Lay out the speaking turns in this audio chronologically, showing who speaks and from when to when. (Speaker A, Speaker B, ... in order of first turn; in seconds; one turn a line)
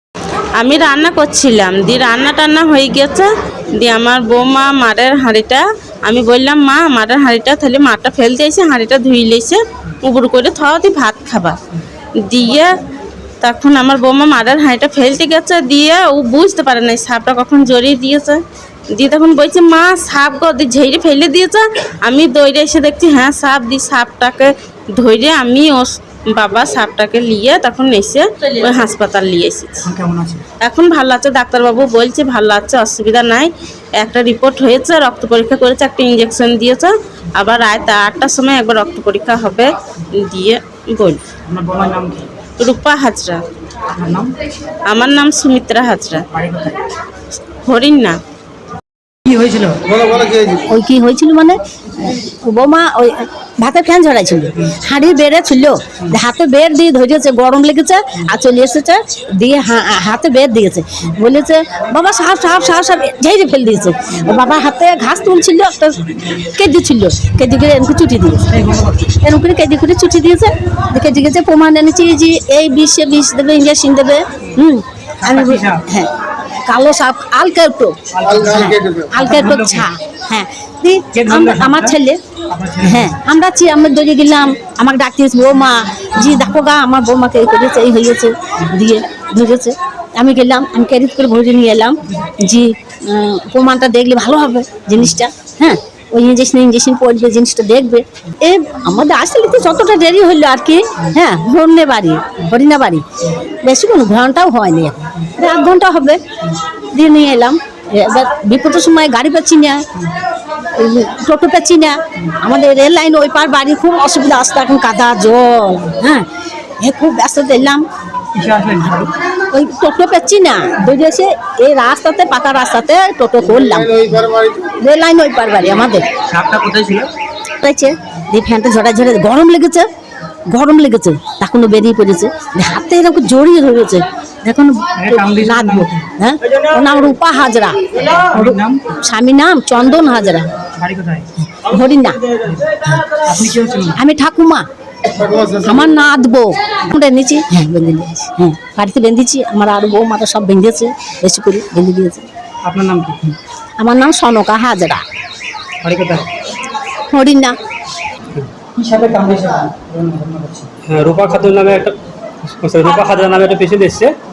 Speaker A: 0.6-11.6
Speaker A: 12.2-12.8
Speaker A: 13.4-29.9
Speaker B: 29.8-30.4
Speaker A: 30.6-41.2
Speaker B: 41.5-42.3
Speaker A: 42.6-43.4
Speaker B: 43.9-44.3
Speaker A: 44.8-46.3
Speaker B: 46.3-46.8
Speaker A: 47.6-48.1
Speaker B: 49.2-49.9
Speaker C: 50.4-68.5
Speaker B: 68.5-69.0
Speaker C: 69.0-76.1
Speaker B: 75.2-75.8
Speaker C: 76.7-82.2
Speaker B: 78.1-79.9
Speaker B: 81.1-82.0
Speaker B: 82.5-83.1
Speaker C: 82.8-103.0
Speaker C: 103.6-106.2
Speaker C: 106.9-109.9
Speaker C: 110.7-116.2
Speaker C: 116.8-117.8
Speaker B: 118.3-119.1
Speaker C: 119.5-126.1
Speaker B: 126.3-127.1
Speaker C: 127.6-129.9
Speaker C: 130.5-140.5
Speaker B: 135.0-136.0
Speaker B: 138.2-138.8
Speaker B: 140.8-141.3
Speaker C: 141.6-142.2
Speaker B: 143.1-143.9
Speaker C: 143.9-144.7
Speaker C: 145.4-152.3
Speaker B: 152.6-153.2
Speaker C: 153.8-155.0
Speaker B: 155.8-156.3
Speaker C: 157.1-157.6
Speaker B: 158.8-160.7
Speaker D: 160.8-164.1